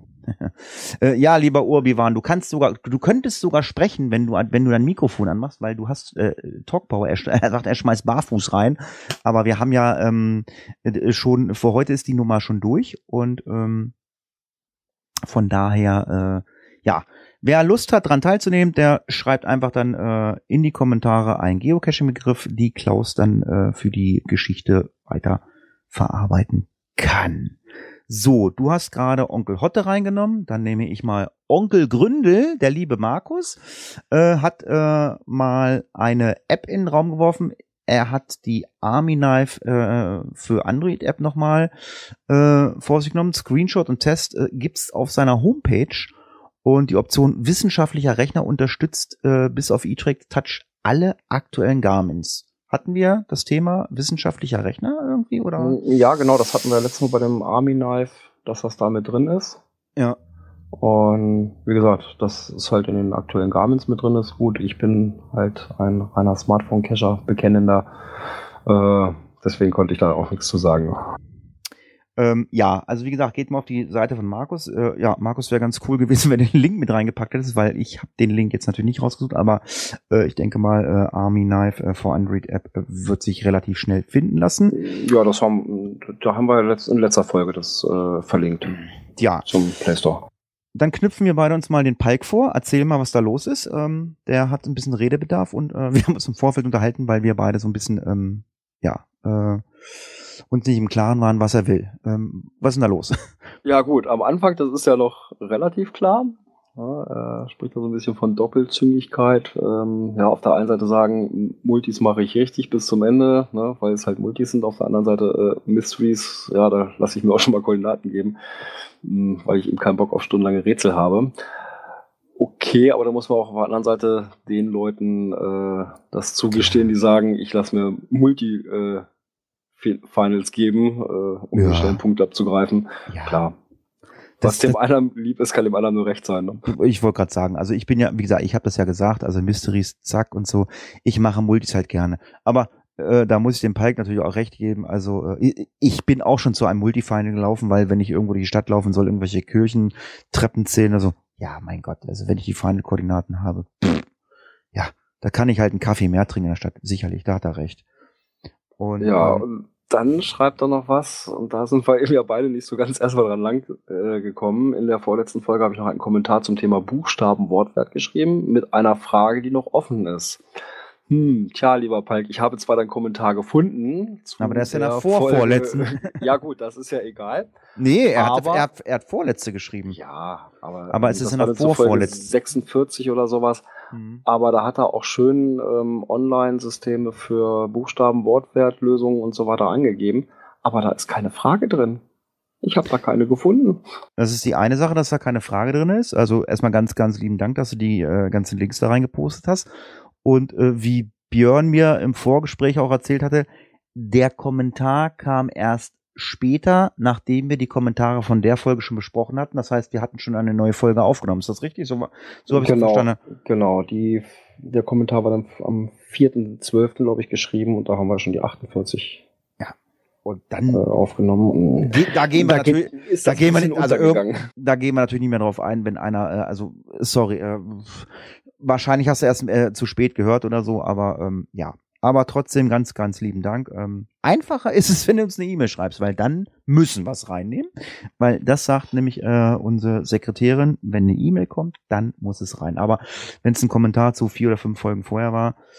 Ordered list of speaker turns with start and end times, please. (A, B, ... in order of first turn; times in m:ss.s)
0:00.3-0:13.9 A
0:15.2-0:27.6 A
0:28.1-0:41.7 A
0:42.3-0:46.1 A
0:46.6-0:55.8 A
0:55.6-0:59.6 B
1:00.8-1:07.9 B
1:08.6-1:11.0 B
1:12.2-1:24.8 A
1:24.7-1:28.8 B
1:29.2-1:29.5 A
1:29.4-1:30.2 B
1:30.7-1:39.6 A
1:40.5-1:43.2 A
1:43.6-1:58.4 B
1:59.0-2:01.3 B
2:02.4-2:09.0 B
2:06.5-2:06.8 A
2:09.8-2:13.6 B
2:11.5-2:12.0 A
2:13.1-2:13.4 A
2:14.4-2:14.8 A
2:14.4-2:16.6 B
2:16.7-2:34.0 A
2:34.7-2:37.8 A
2:38.8-2:39.4 A
2:39.0-2:50.4 B
2:51.1-2:57.5 B
2:54.4-2:56.2 A
2:57.8-3:00.0 A
2:58.1-2:58.7 B
2:59.9-3:03.7 B
3:00.9-3:02.3 A
3:03.9-3:04.2 A
3:04.2-3:12.0 B
3:12.6-3:13.8 B
3:14.2-3:19.7 A
3:20.2-3:33.2 A
3:32.5-3:39.2 B
3:40.2-3:40.8 A
3:40.7-3:44.5 B
3:41.8-4:05.6 A